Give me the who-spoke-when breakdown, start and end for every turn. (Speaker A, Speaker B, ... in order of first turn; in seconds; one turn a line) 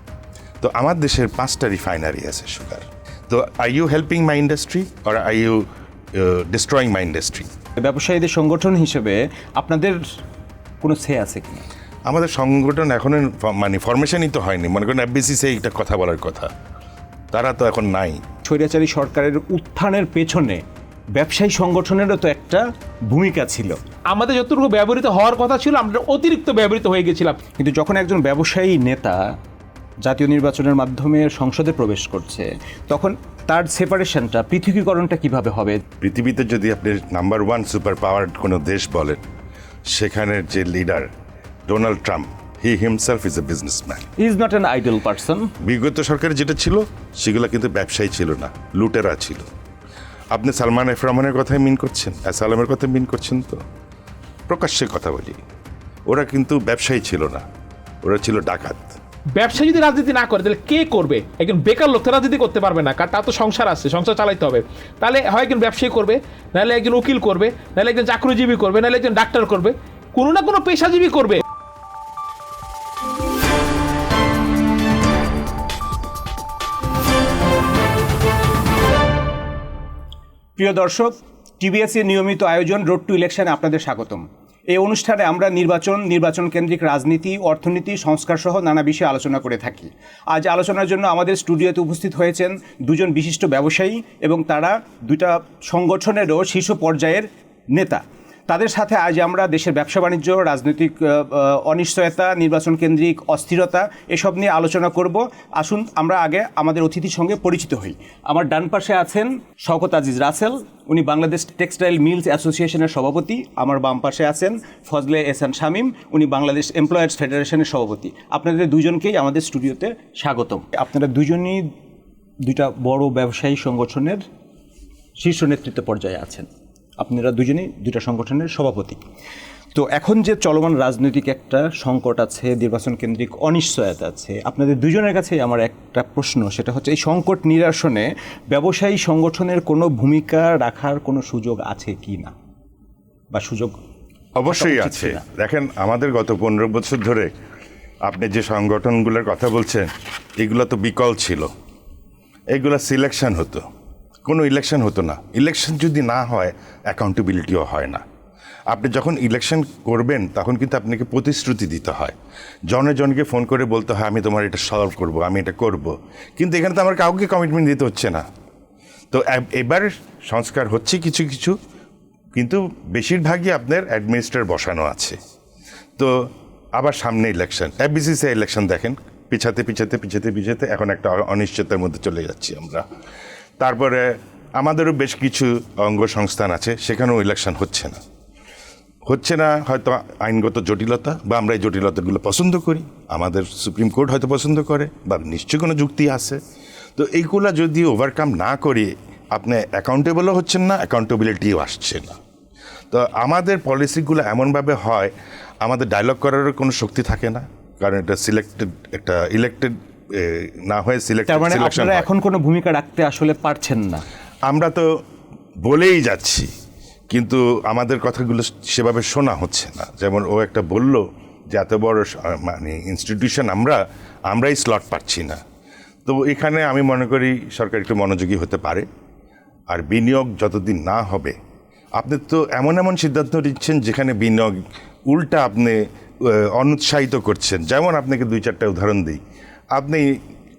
Speaker A: 0.6-7.5
Speaker B: 7.8-10.0
Speaker B: 10.8-11.6
Speaker A: 12.1-16.5
Speaker A: 17.3-18.2
Speaker B: 18.4-20.6
Speaker B: 21.1-23.8
Speaker C: 24.1-27.4
Speaker B: 27.6-29.3
Speaker B: 30.0-35.8
Speaker A: 36.0-39.2
Speaker A: 39.9-41.1
Speaker A: 41.7-44.1
Speaker B: 44.2-45.5
Speaker A: 45.6-49.5
Speaker A: 50.3-53.6
Speaker A: 54.5-55.4
Speaker A: 56.1-57.4
Speaker A: 58.0-58.9
Speaker C: 59.4-71.4
Speaker B: 80.6-121.7
Speaker B: 122.4-124.2
Speaker B: 125.2-126.5
Speaker B: 127.0-129.0
Speaker B: 129.7-142.3
Speaker B: 143.3-143.7
Speaker A: 144.3-147.3
Speaker B: 144.5-145.2
Speaker A: 148.0-151.5
Speaker A: 152.5-153.6
Speaker A: 154.2-158.0
Speaker A: 158.7-162.1
Speaker A: 162.7-168.2
Speaker A: 169.1-171.6
Speaker A: 172.3-175.2
Speaker A: 176.0-176.2
Speaker A: 176.8-182.8
Speaker A: 183.6-188.0
Speaker A: 189.1-196.4
Speaker A: 196.9-202.2
Speaker A: 202.9-212.1
Speaker B: 211.3-214.0
Speaker A: 214.5-214.9
Speaker A: 215.6-216.5
Speaker A: 217.1-225.4
Speaker A: 226.0-228.8
Speaker A: 229.7-231.3
Speaker A: 232.0-234.6
Speaker A: 235.1-239.2
Speaker A: 239.7-240.2